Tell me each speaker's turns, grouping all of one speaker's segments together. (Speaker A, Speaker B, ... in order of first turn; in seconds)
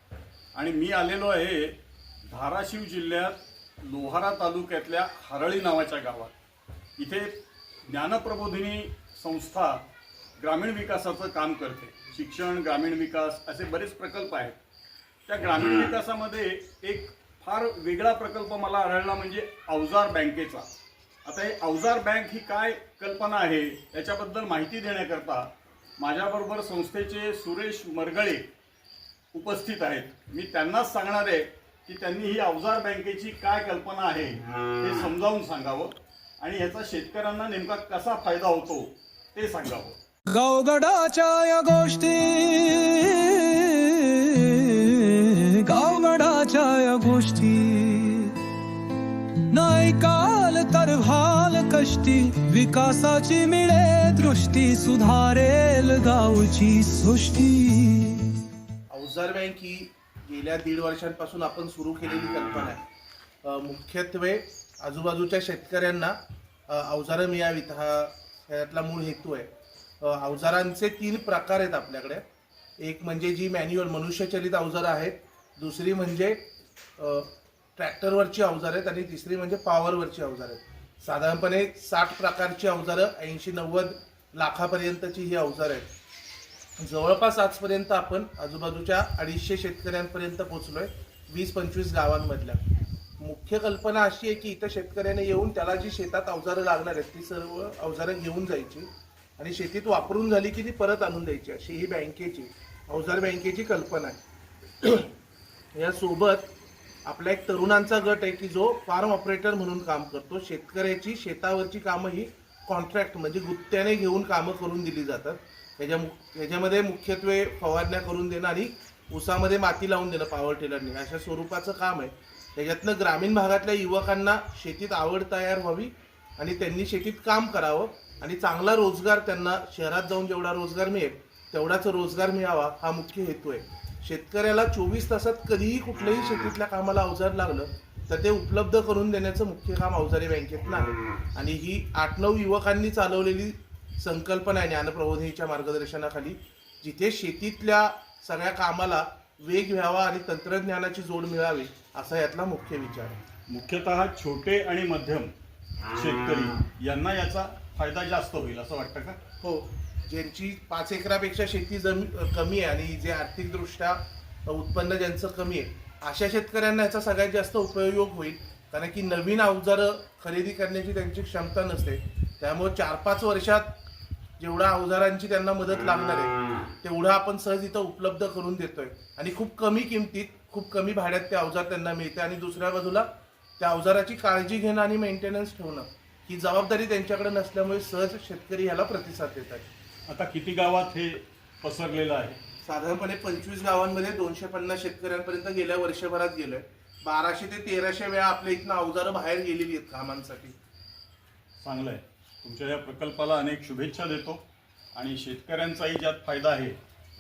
Speaker A: 0.6-6.3, 7.0-9.8, 10.4-14.6, 15.3-20.7, 21.2-28.5, 29.3-40.0, 153.5-155.3, 155.9-159.2, 190.1-192.4, 201.6-206.8
Speaker B: 40.3-48.5, 49.5-58.3
Speaker C: 58.9-62.8, 63.4-66.2, 66.7-69.5, 70.0-72.2, 72.8-76.4, 77.0-85.9, 86.8-92.6, 93.2-98.9, 99.4-104.2, 104.8-105.1, 105.8-106.5, 107.0-153.2, 159.4-173.7, 174.4-183.1, 183.6-189.7, 192.6-200.6